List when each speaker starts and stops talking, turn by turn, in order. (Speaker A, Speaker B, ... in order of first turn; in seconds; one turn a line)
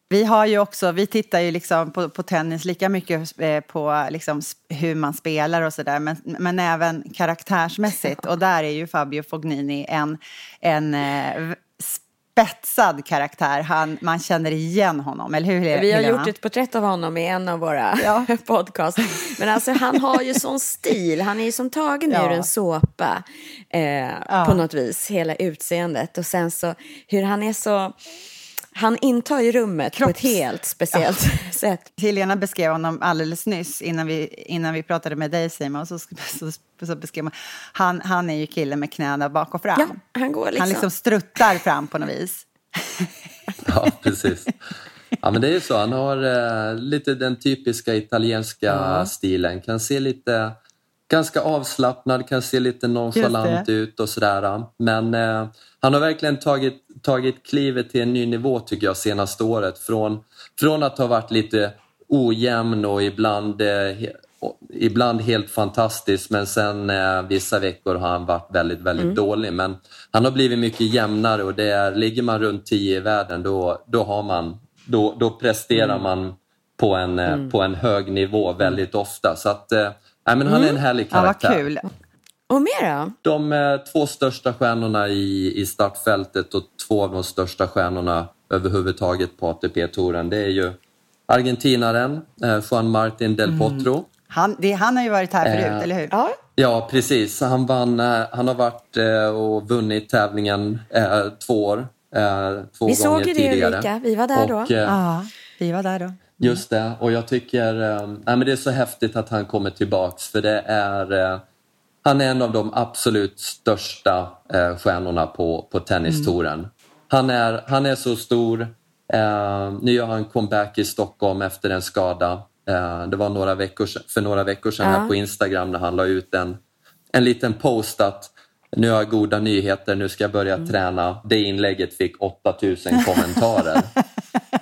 Speaker A: 0.1-16.3
Speaker B: 15.7-27.9
Speaker A: 18.0-18.3
Speaker A: 22.1-22.5
Speaker A: 24.3-24.6
Speaker B: 28.7-31.9
Speaker A: 29.9-30.4
Speaker A: 32.0-40.0
Speaker B: 39.7-40.9
Speaker A: 40.5-43.1
Speaker C: 43.6-44.5
Speaker C: 45.2-50.5
Speaker A: 48.7-49.1
Speaker C: 51.1-81.6
Speaker A: 53.1-53.7
Speaker B: 80.5-80.8
Speaker A: 81.1-81.8
Speaker B: 82.5-83.1
Speaker C: 83.2-90.8
Speaker C: 91.3-94.1
Speaker A: 93.5-96.1
Speaker C: 95.4-95.9
Speaker B: 96.1-96.4
Speaker C: 96.6-105.0
Speaker B: 102.9-104.7
Speaker A: 104.8-106.6
Speaker C: 106.4-111.4
Speaker C: 112.0-126.6
Speaker A: 116.0-116.3
Speaker B: 124.8-125.1
Speaker C: 127.1-133.9